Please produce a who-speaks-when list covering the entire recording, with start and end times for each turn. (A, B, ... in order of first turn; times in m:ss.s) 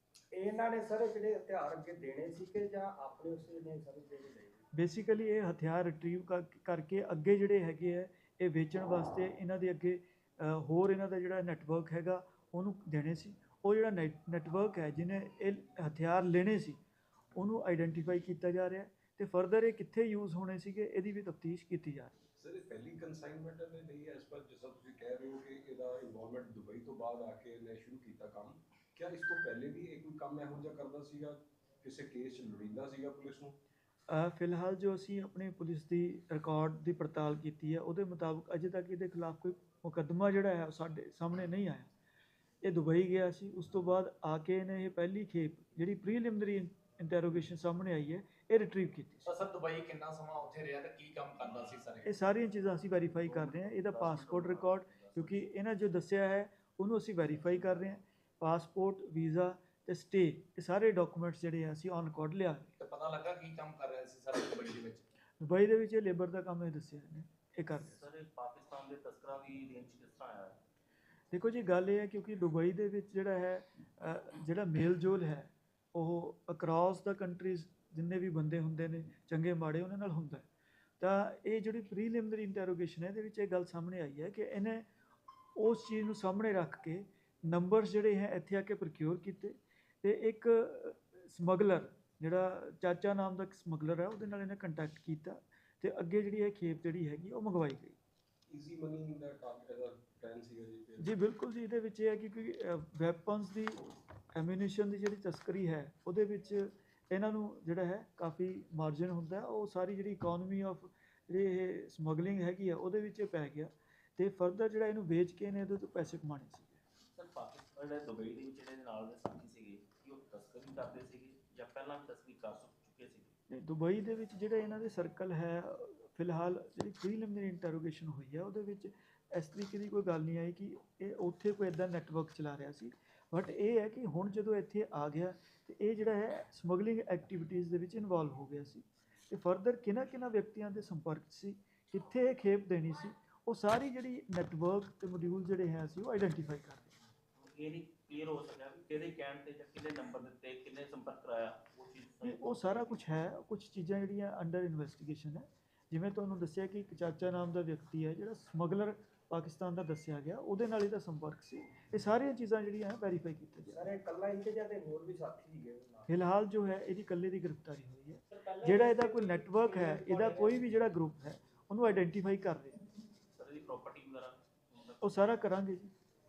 0:00.3-0:04.6 A
0:04.7-0:16.8 B
0:17.4-0:22.2 B
0:22.4-0:33.6 C
0:34.1-0:41.9 B
0:42.6-0:49.3 B
0:49.3-0:52.1 D
0:52.0-1:02.7 B
0:53.2-0:55.5 E
1:02.8-1:05.0 D
1:05.4-1:08.0 B
1:07.8-1:10.6 E
1:11.3-1:20.5 B
1:21.0-1:24.9 B
1:25.6-1:38.0 B
1:38.5-1:41.1 C
1:41.0-1:56.8 B
1:57.1-2:03.3 E
2:03.5-2:26.9 B
2:27.4-2:33.0 E
2:32.2-2:43.9 B
2:43.7-2:46.1 A
2:46.1-2:52.8 B
2:48.3-2:50.6 A
2:53.4-2:55.1 E
2:55.0-2:55.9 B